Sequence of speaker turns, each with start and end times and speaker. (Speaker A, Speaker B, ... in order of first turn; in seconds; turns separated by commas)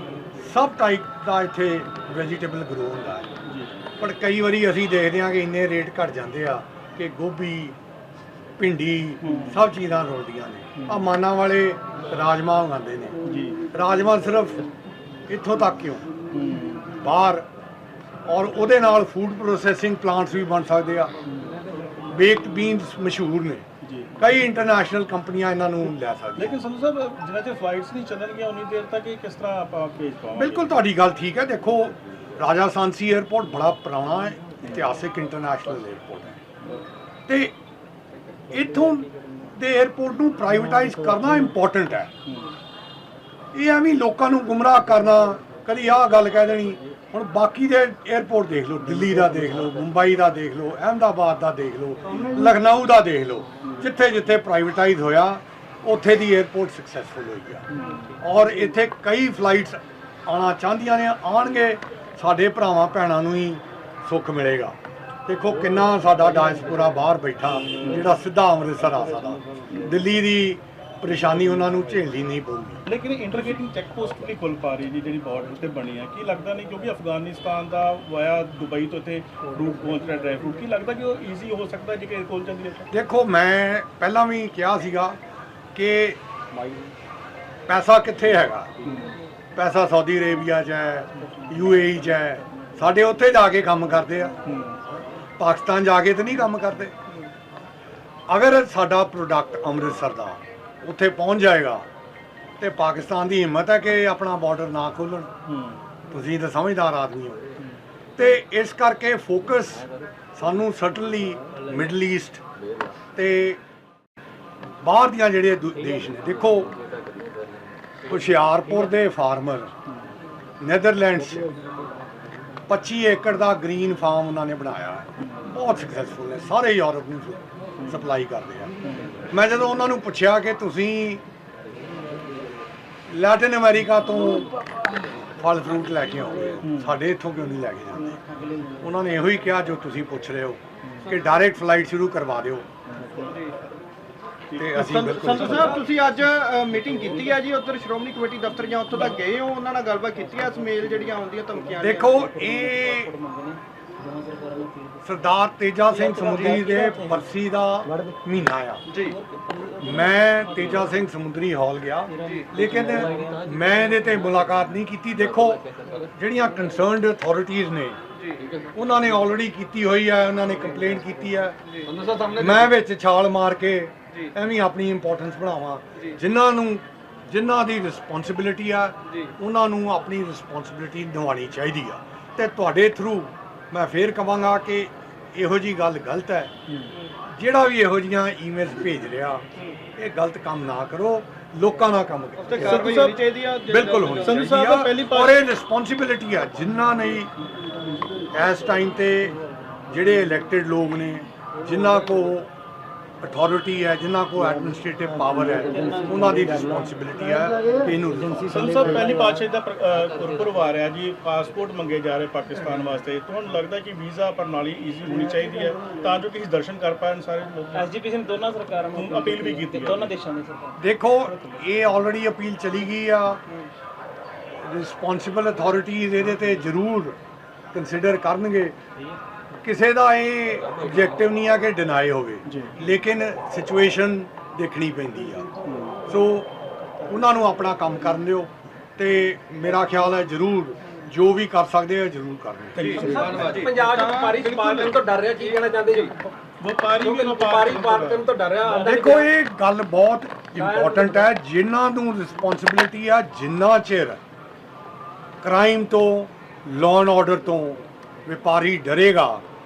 Speaker A: 0.3-3.3, Speaker B: 3.5-3.7, Speaker A: 4.0-7.8, Speaker A: 8.6-13.2, Speaker B: 9.2-9.7, Speaker B: 10.8-11.0, Speaker B: 13.3-13.6, Speaker A: 13.7-14.6, Speaker A: 15.3-16.1, Speaker B: 16.3-17.0, Speaker A: 17.0-17.5, Speaker A: 18.2-21.1, Speaker B: 21.3-21.6, Speaker A: 22.1-23.6, Speaker B: 23.8-24.3, Speaker A: 24.2-26.6, Speaker B: 26.4-30.8, Speaker A: 30.4-36.4, Speaker A: 37.3-37.5, Speaker A: 38.5-42.1, Speaker B: 42.3-42.5, Speaker A: 43.5-57.7, Speaker B: 57.7-58.1, Speaker A: 58.2-72.8, Speaker B: 72.9-82.9, Speaker A: 82.9-85.2, Speaker A: 85.8-86.2, Speaker A: 87.7-88.7, Speaker B: 88.9-89.1, Speaker A: 89.5-94.4, Speaker B: 94.5-94.8, Speaker A: 95.4-96.9, Speaker A: 98.3-101.9, Speaker A: 102.6-105.3, Speaker B: 105.5-105.8, Speaker A: 106.1-107.4, Speaker A: 108.2-112.4, Speaker A: 113.2-113.6, Speaker A: 114.8-116.7, Speaker A: 118.1-119.7, Speaker A: 120.6-121.5, Speaker A: 122.7-128.7, Speaker B: 125.2-125.5, Speaker B: 128.8-129.2, Speaker A: 129.3-131.2, Speaker A: 133.1-134.5, Speaker A: 135.4-138.2, Speaker B: 136.6-137.0, Speaker A: 138.8-142.7, Speaker B: 142.9-143.5, Speaker B: 144.5-145.8, Speaker A: 144.6-145.8, Speaker C: 144.8-152.4, Speaker A: 151.8-153.1, Speaker D: 152.6-153.6, Speaker D: 154.1-154.9, Speaker A: 155.0-158.8, Speaker D: 156.0-157.1, Speaker C: 158.9-159.2, Speaker D: 159.3-159.8, Speaker A: 159.8-168.0, Speaker D: 162.1-163.4, Speaker C: 168.2-168.5, Speaker A: 168.7-171.6, Speaker E: 171.9-172.5, Speaker A: 172.3-186.5, Speaker B: 186.7-186.9, Speaker A: 187.3-189.4, Speaker A: 190.0-193.1, Speaker C: 192.4-194.6, Speaker B: 192.5-195.5, Speaker A: 193.7-197.3, Speaker A: 198.3-202.5, Speaker A: 203.2-208.8, Speaker D: 205.7-206.3, Speaker D: 208.5-209.0, Speaker B: 208.5-217.9, Speaker D: 217.8-220.8, Speaker B: 218.9-220.2, Speaker A: 220.8-223.4, Speaker A: 224.6-227.2, Speaker A: 227.7-228.8, Speaker A: 229.6-235.5, Speaker B: 232.5-232.8, Speaker B: 235.7-236.1, Speaker A: 236.1-236.5, Speaker A: 237.1-243.0, Speaker B: 242.8-243.7, Speaker C: 242.8-244.9, Speaker E: 243.0-246.1, Speaker C: 245.5-246.1, Speaker B: 246.6-248.3, Speaker E: 247.0-249.0, Speaker D: 248.6-249.3, Speaker A: 248.8-254.2, Speaker D: 250.6-251.2, Speaker A: 255.4-259.4